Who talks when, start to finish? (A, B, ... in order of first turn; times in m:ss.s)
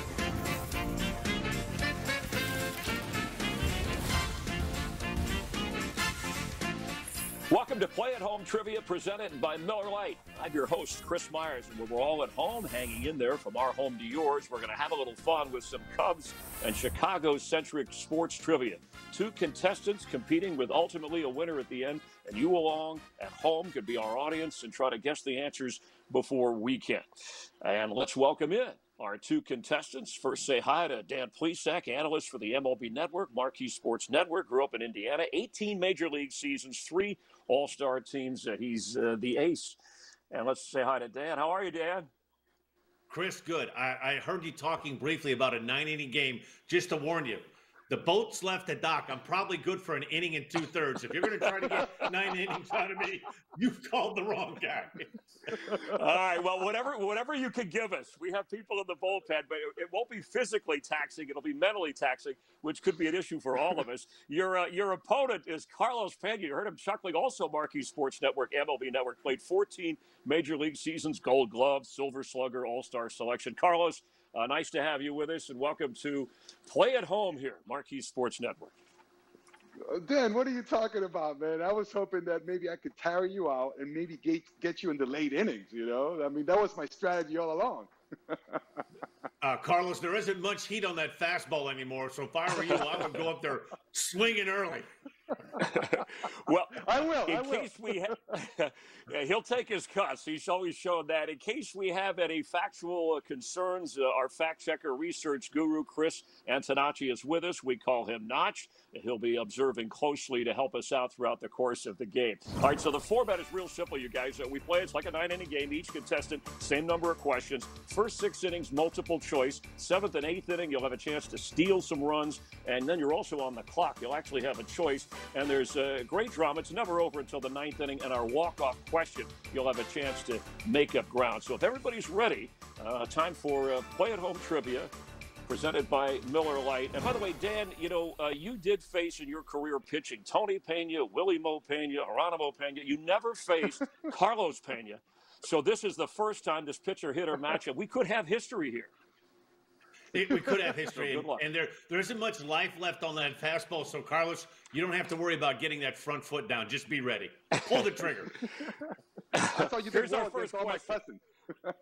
0:07.5-0:27.1 A
0:27.6-0:39.8 A
0:40.3-0:42.1 A
0:43.1-0:55.1 B
0:51.6-0:51.8 A
0:55.9-1:18.7 A
1:19.9-1:28.6 C
1:29.4-1:34.9 B
1:35.6-2:14.9 A
1:36.8-1:37.8 C
2:15.5-2:28.9 A
2:30.1-2:38.4 B
2:30.9-2:31.4 A
2:39.4-2:41.0 A
2:39.6-2:41.7 C